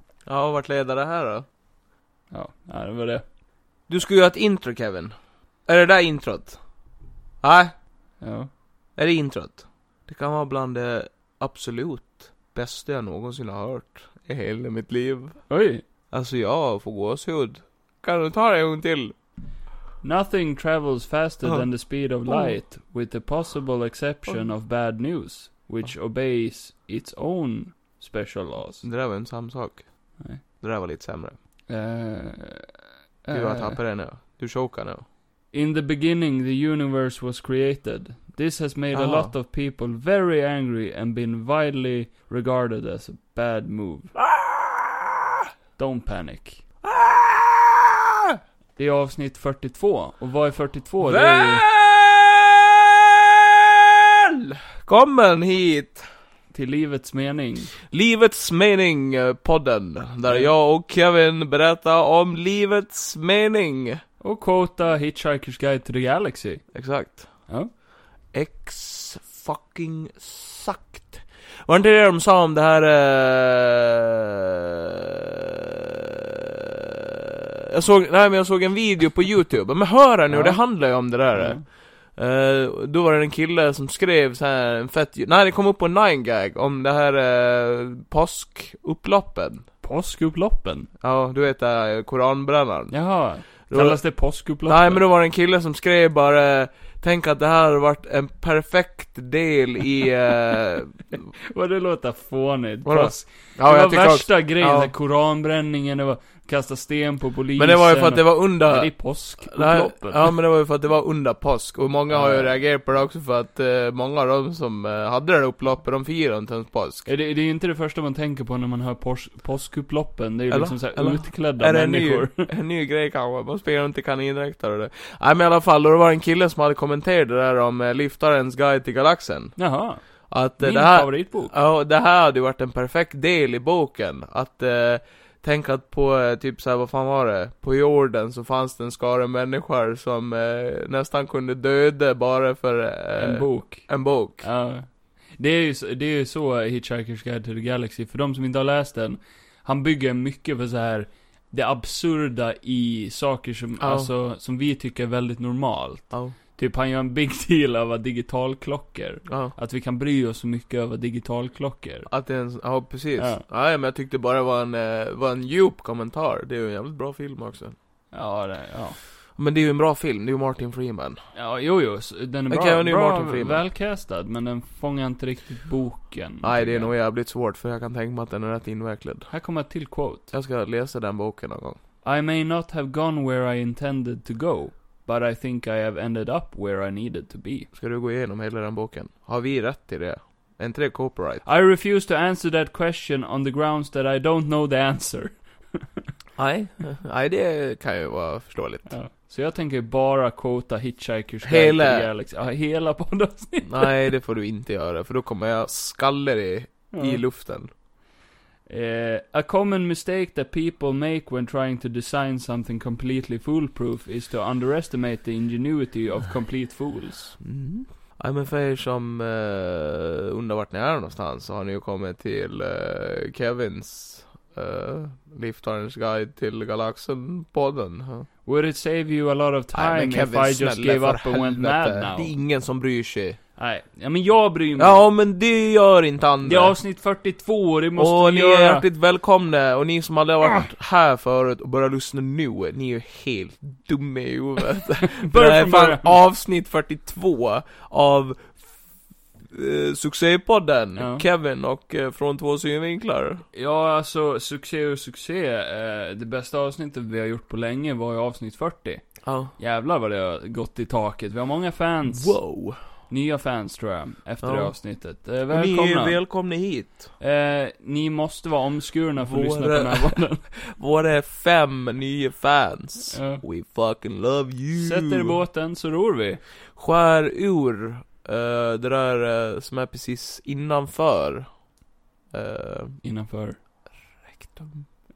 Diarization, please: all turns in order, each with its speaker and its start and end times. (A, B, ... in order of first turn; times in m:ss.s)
0:00.3-0:01.5 A
0:02.3-0:03.2 B
0:03.9-0:05.1 A
0:05.7-0:06.6 A
0:07.4-0:07.7 A
0:08.2-0:08.5 B
0:09.0-0:15.5 A
0:15.5-0:15.8 B
0:16.1-0:19.2 A
0:20.0-0:28.9 B
0:22.3-0:22.5 A
0:28.8-0:31.4 A
0:31.7-0:33.8 B
0:33.3-0:35.0 A
0:35.5-0:44.1 B
0:38.9-0:39.3 A
0:44.2-0:45.2 A
0:45.8-0:46.6 B
0:46.8-0:48.4 A
0:48.8-0:51.6 B
0:51.0-0:56.0 A
0:56.5-0:57.7 B
0:57.9-1:04.0 A
1:00.2-1:00.5 B
1:04.2-1:06.7 B
1:06.7-1:07.5 A
1:07.5-1:07.7 B
1:08.3-1:15.7 A
1:16.3-1:16.7 A
1:17.7-1:29.7 A
1:20.3-1:21.7 B
1:29.8-1:30.9 B
1:31.0-1:41.2 A
1:32.9-1:35.0 B
1:41.5-1:50.4 B
1:42.8-1:44.9 A
1:47.6-1:57.1 A
1:52.1-1:52.6 B
1:57.1-2:02.5 B
2:00.5-2:24.5 A
2:09.6-2:11.5 B
2:23.2-2:42.1 B
2:33.8-2:34.1 A
2:36.1-2:36.4 A
2:39.3-2:39.6 A
2:42.1-2:47.8 A
2:43.2-2:43.4 B
2:48.1-2:49.0 B
2:49.4-2:51.2 A
2:51.3-2:56.9 B
2:52.5-2:53.6 A
2:56.4-2:59.3 A
2:59.3-3:00.3 B
3:00.3-3:01.8 A
3:02.0-3:07.7 B
3:07.7-3:11.4 A
3:11.4-3:15.9 B
3:16.4-3:19.0 A
3:18.9-3:24.1 B
3:21.4-3:22.1 A
3:23.7-3:27.7 A
3:26.9-3:27.2 B
3:28.7-3:37.4 B
3:37.4-3:48.3 A
3:48.4-3:52.3 B
3:49.7-3:53.4 A
3:53.6-3:55.0 B
3:54.8-3:56.8 A
3:56.4-3:58.8 B
3:58.0-4:08.6 A
4:05.1-4:06.2 B
4:09.5-4:13.4 A
4:11.0-4:11.3 B
4:13.5-4:22.4 B
4:19.2-4:19.5 A
4:22.1-4:22.8 A
4:23.1-4:26.2 B
4:24.4-4:24.8 A
4:25.5-4:27.1 A
4:27.2-4:30.4 B
4:29.2-4:35.4 A
4:33.1-4:33.4 B
4:34.8-4:36.4 B
4:36.8-4:41.5 A
4:42.3-4:43.0 A
4:43.0-4:43.6 B
4:44.3-4:44.9 A